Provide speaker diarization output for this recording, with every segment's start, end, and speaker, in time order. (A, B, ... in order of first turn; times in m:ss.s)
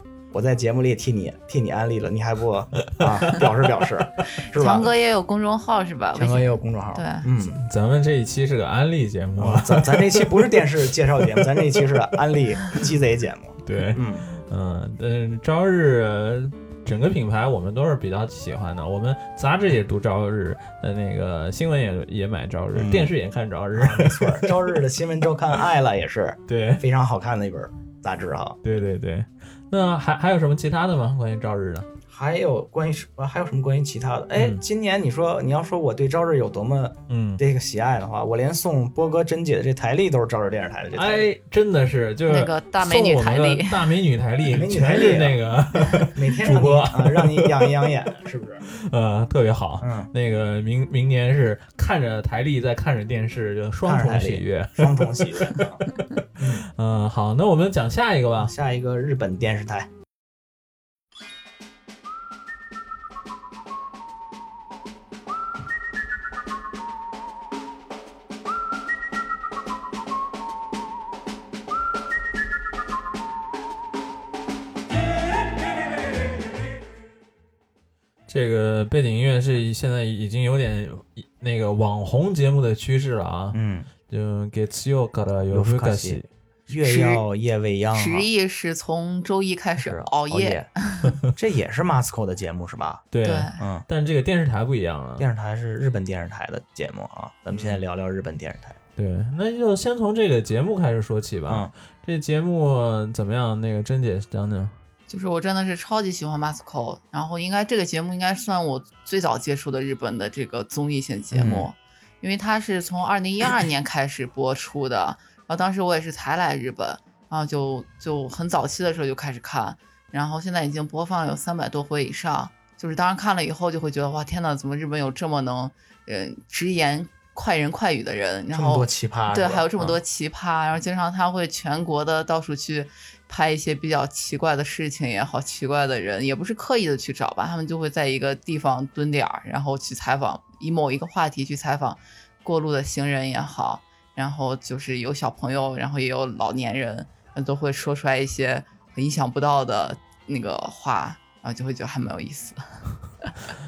0:00.3-0:04.9 A
0:03.0-0:03.4 B
0:04.5-0:07.3 C
0:06.2-0:07.6 A
0:07.4-0:11.9 B
0:09.4-0:14.3 A
0:13.6-0:24.8 B
0:22.7-0:23.1 A
0:23.7-0:28.6 A
0:26.5-0:26.8 B
0:28.6-0:31.9 B
0:32.1-0:41.3 A
0:34.3-0:34.6 B
0:37.1-0:37.4 B
0:40.9-0:47.9 B
0:42.3-0:43.9 C
0:44.4-0:45.4 A
0:46.1-0:48.6 A
0:48.7-0:58.5 B
0:49.8-0:50.1 A
0:53.8-0:55.8 A
0:56.4-0:56.7 A
0:58.4-0:59.9 A
1:18.3-1:26.3 B
1:23.5-1:23.9 A
1:25.5-1:28.3 A
1:26.7-1:27.2 C
1:27.9-1:31.1 C
1:29.8-1:30.7 A
1:31.3-1:33.0 A
1:33.1-1:35.3 B
1:33.2-1:33.6 C
1:33.6-1:33.8 A
1:35.2-1:38.8 A
1:37.5-1:37.8 B
1:39.0-1:44.8 B
1:45.1-2:33.4 C
1:51.3-1:51.7 A
2:08.5-2:10.0 A